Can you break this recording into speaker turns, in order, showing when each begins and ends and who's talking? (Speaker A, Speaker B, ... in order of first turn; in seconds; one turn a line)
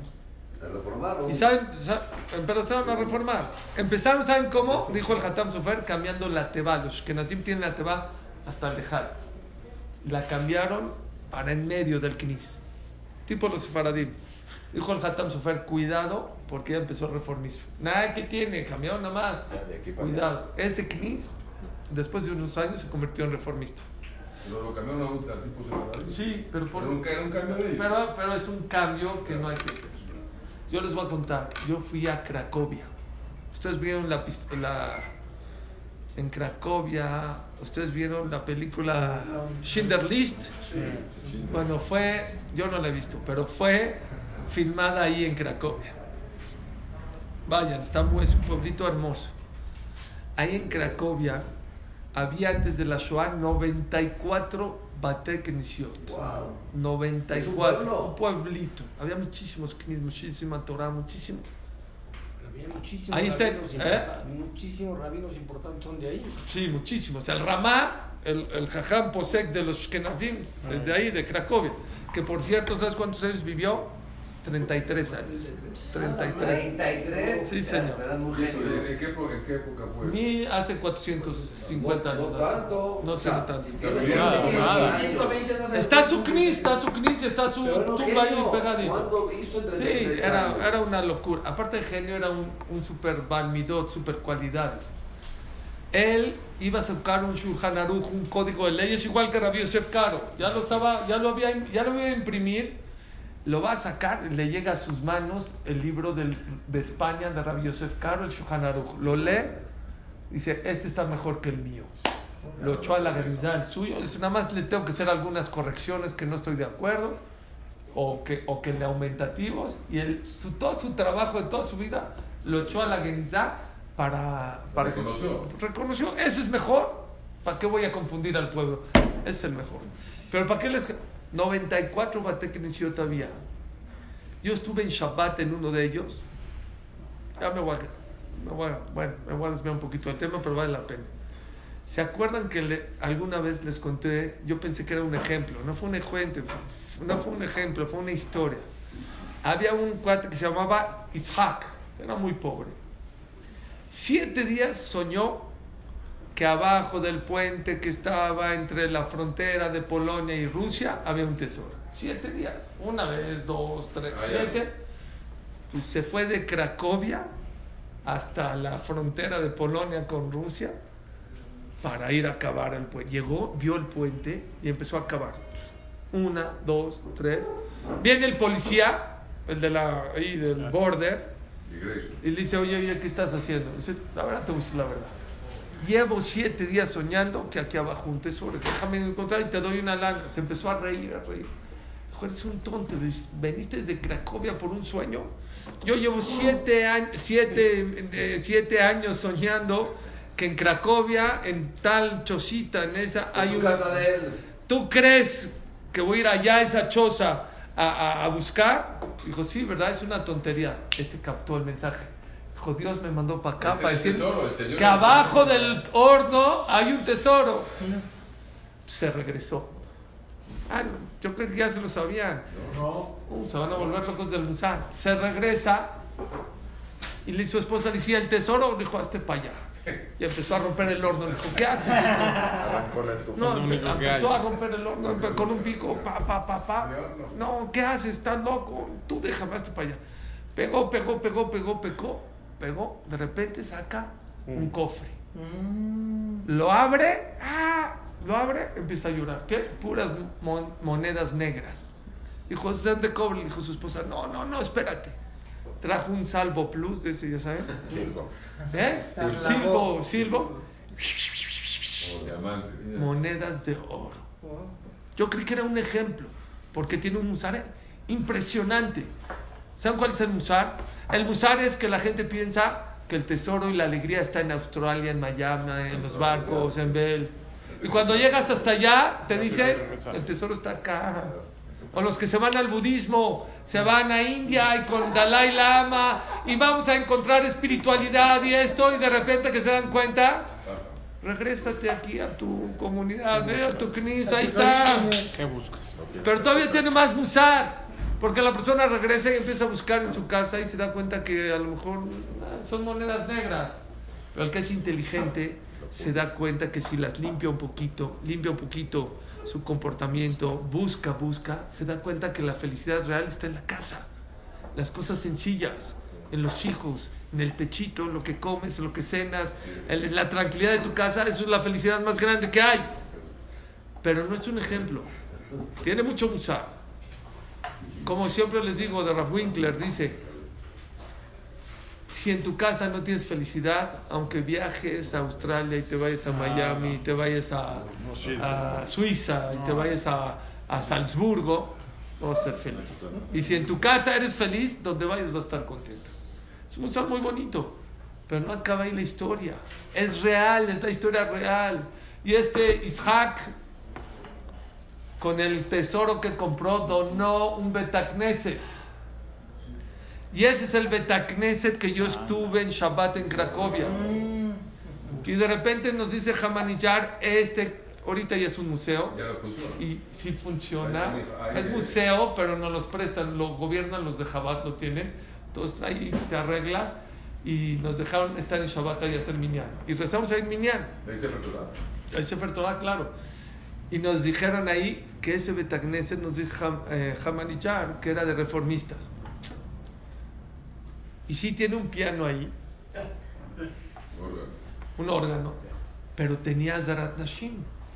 Speaker A: 0.6-1.5
Speaker B: 1.3-9.2
Speaker A: 4.6-5.2
Speaker B: 10.0-12.6
Speaker B: 13.3-14.2
Speaker B: 14.7-23.8
Speaker C: 19.5-20.3
Speaker D: 24.4-26.2
Speaker B: 26.0-30.0
Speaker D: 26.7-27.9
Speaker D: 29.3-29.5
Speaker B: 30.7-32.9
Speaker B: 33.5-35.1
Speaker B: 36.2-40.5
Speaker E: 40.7-41.0
Speaker D: 41.3-41.6
Speaker B: 41.5-45.9
Speaker B: 47.5-49.4
Speaker B: 50.4-51.5
Speaker A: 50.6-51.0
Speaker B: 52.1-61.5
Speaker A: 56.0-56.6
Speaker A: 57.3-58.1
Speaker F: 62.4-66.4
Speaker B: 63.1-64.1
Speaker B: 66.4-73.9
Speaker E: 70.7-70.9
Speaker B: 74.4-78.1
Speaker G: 75.3-76.8
Speaker A: 76.1-79.0
Speaker D: 78.3-80.2
Speaker B: 80.0-85.0
Speaker A: 81.7-85.4
Speaker D: 83.8-85.0
Speaker G: 83.8-86.8
Speaker E: 84.1-85.0
Speaker B: 85.7-89.1
Speaker A: 87.6-90.9
Speaker B: 89.7-95.0
Speaker B: 95.9-102.8
Speaker B: 103.5-109.5
Speaker A: 109.1-109.6
Speaker B: 110.3-111.9
Speaker D: 112.5-113.5
Speaker B: 112.6-117.2
Speaker B: 117.9-133.4
Speaker D: 124.7-125.5
Speaker B: 134.4-136.3
Speaker B: 137.4-141.1
Speaker B: 141.9-148.7
Speaker B: 149.4-152.8
Speaker B: 153.9-155.5
Speaker B: 156.3-164.8
Speaker D: 164.1-164.7
Speaker B: 165.7-167.3
Speaker B: 168.1-170.8
Speaker B: 171.8-175.5
Speaker B: 176.1-181.3
Speaker D: 181.7-182.2
Speaker B: 182.2-185.2
Speaker B: 185.8-191.5
Speaker B: 192.1-195.3
Speaker B: 195.8-204.1
Speaker A: 203.3-204.4
Speaker B: 204.7-217.8
Speaker D: 213.6-215.8
Speaker B: 218.9-219.8
Speaker B: 220.7-226.0
Speaker D: 222.5-222.8
Speaker B: 227.2-229.7
Speaker B: 230.2-232.7
Speaker C: 232.5-233.8
Speaker B: 233.3-240.0
Speaker E: 233.3-234.5
Speaker D: 235.0-236.2
Speaker D: 236.8-237.3
Speaker B: 240.6-245.2
Speaker B: 246.5-251.9
Speaker B: 252.5-255.2
Speaker B: 255.8-257.9
Speaker D: 257.8-258.1
Speaker C: 258.0-258.2
Speaker B: 258.7-262.1
Speaker G: 259.1-260.6
Speaker D: 259.1-259.6
Speaker D: 262.0-263.1
Speaker B: 262.9-264.2
Speaker G: 264.4-264.7
Speaker B: 265.2-269.1
Speaker B: 269.8-281.4
Speaker D: 275.9-276.7
Speaker D: 277.7-278.7
Speaker E: 279.3-280.3
Speaker B: 281.9-290.5
Speaker D: 290.6-291.0
Speaker B: 291.2-295.2
Speaker E: 293.3-296.0
Speaker C: 295.9-297.0
Speaker B: 296.2-303.8
Speaker B: 304.3-314.1
Speaker C: 305.8-306.2
Speaker B: 314.8-322.9
Speaker D: 319.6-319.9
Speaker B: 324.0-325.1
Speaker B: 325.8-326.7
Speaker B: 328.0-330.2
Speaker D: 329.2-330.5
Speaker B: 332.1-347.8
Speaker E: 336.3-337.0
Speaker D: 338.0-338.7
Speaker E: 338.0-338.8
Speaker E: 339.5-340.0
Speaker D: 343.1-343.8
Speaker B: 348.3-353.5
Speaker B: 355.2-358.7
Speaker B: 360.3-364.0
Speaker E: 362.0-362.4
Speaker B: 365.2-369.2
Speaker D: 369.1-369.8
Speaker B: 369.8-380.9
Speaker D: 370.8-372.0
Speaker D: 381.0-381.7
Speaker B: 382.1-383.1
Speaker B: 383.9-389.1
Speaker B: 391.3-392.5
Speaker D: 394.1-394.6
Speaker B: 395.0-395.6
Speaker B: 396.2-397.7